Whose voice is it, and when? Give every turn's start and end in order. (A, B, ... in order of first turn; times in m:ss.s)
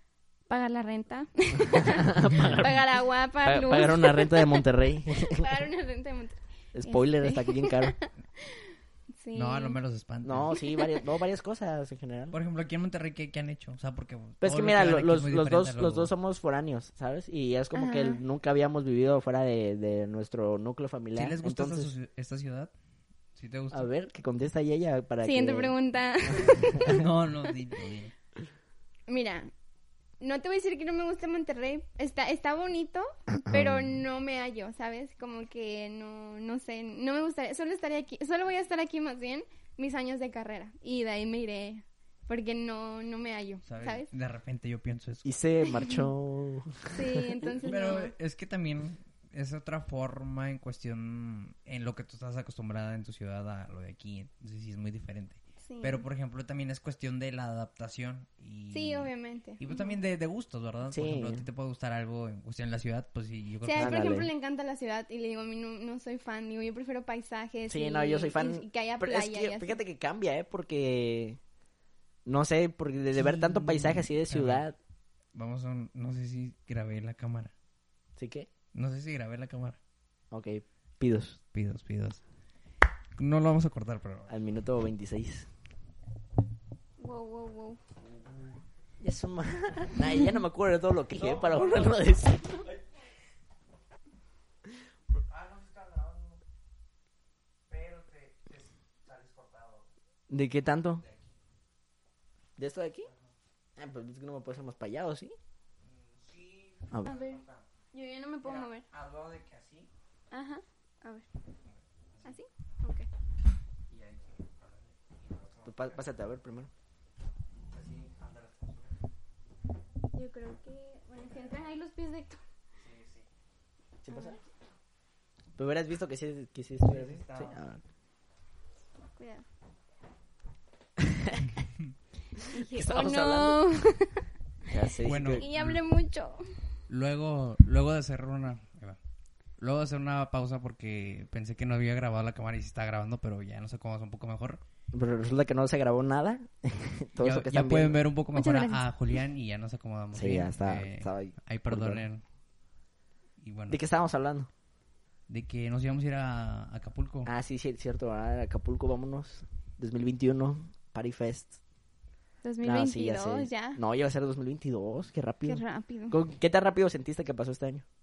0:00.5-0:09.8 A
0:01.6-0:02.8 B
0:03.4-0:05.6 B
0:06.7-0:08.0 B
0:09.3-0:10.5 C
0:10.2-0:12.4 B
0:10.5-0:11.0 A
0:12.3-0:16.1 C
0:14.4-0:21.9 B
0:17.7-0:18.2 A
0:21.1-0:22.7 C
0:23.4-0:23.9 C
0:23.7-0:25.7 B
0:25.2-0:27.0 A
0:26.2-0:27.0 B
0:26.8-0:28.1 C
0:29.1-0:29.5 A
0:30.2-0:44.1 A
0:33.3-0:34.0 B
0:43.6-0:45.3 C
0:45.2-0:47.4 B
0:45.6-0:46.1 A
0:46.9-0:48.1 A
0:47.6-1:04.1 C
0:55.6-0:56.0 A
0:58.7-1:00.0 A
1:00.9-1:01.4 B
1:03.6-1:09.8 A
1:03.8-1:04.3 B
1:07.7-1:11.4 B
1:12.2-1:14.8 B
1:13.1-1:14.6 C
1:15.3-1:17.5 C
1:18.2-1:18.5 B
1:18.7-1:19.8 C
1:20.3-1:21.4 B
1:21.5-1:22.2 C
1:23.2-1:24.3 C
1:24.3-1:25.5 B
1:27.0-1:27.8 A
1:29.0-1:32.6 B
1:31.2-1:32.0 C
1:35.2-1:36.4 C
1:37.7-1:39.9 C
1:40.3-1:41.0 B
1:42.6-1:43.1 B
1:43.8-1:45.3 B
1:45.9-1:47.6 C
1:46.9-1:47.2 B
1:47.0-1:48.8 A
1:48.4-1:49.9 C
1:50.3-1:51.3 A
1:52.2-1:53.1 A
1:53.9-1:56.0 C
1:55.6-1:56.7 B
1:57.7-1:58.9 C
2:00.1-2:02.4 A
2:02.8-2:03.2 C
2:04.0-2:04.4 B
2:04.1-2:04.4 A
2:05.6-2:07.8 B
2:06.8-2:07.6 C
2:09.2-2:09.4 A
2:11.0-2:11.4 B
2:12.4-2:14.2 A
2:12.6-2:13.6 B
2:14.6-2:15.5 B
2:15.0-2:15.8 C
2:15.3-2:16.5 A
2:16.9-2:19.0 C
2:19.6-2:24.6 C
2:24.9-2:28.0 B
2:27.2-2:32.2 C
2:28.3-2:28.8 A
2:30.1-2:32.0 B
2:33.4-2:33.8 C
2:33.7-2:34.5 B
2:35.3-2:37.3 C
2:37.2-2:41.6 B
2:42.4-2:43.8 A
2:42.6-2:47.8 B
2:45.4-2:46.2 A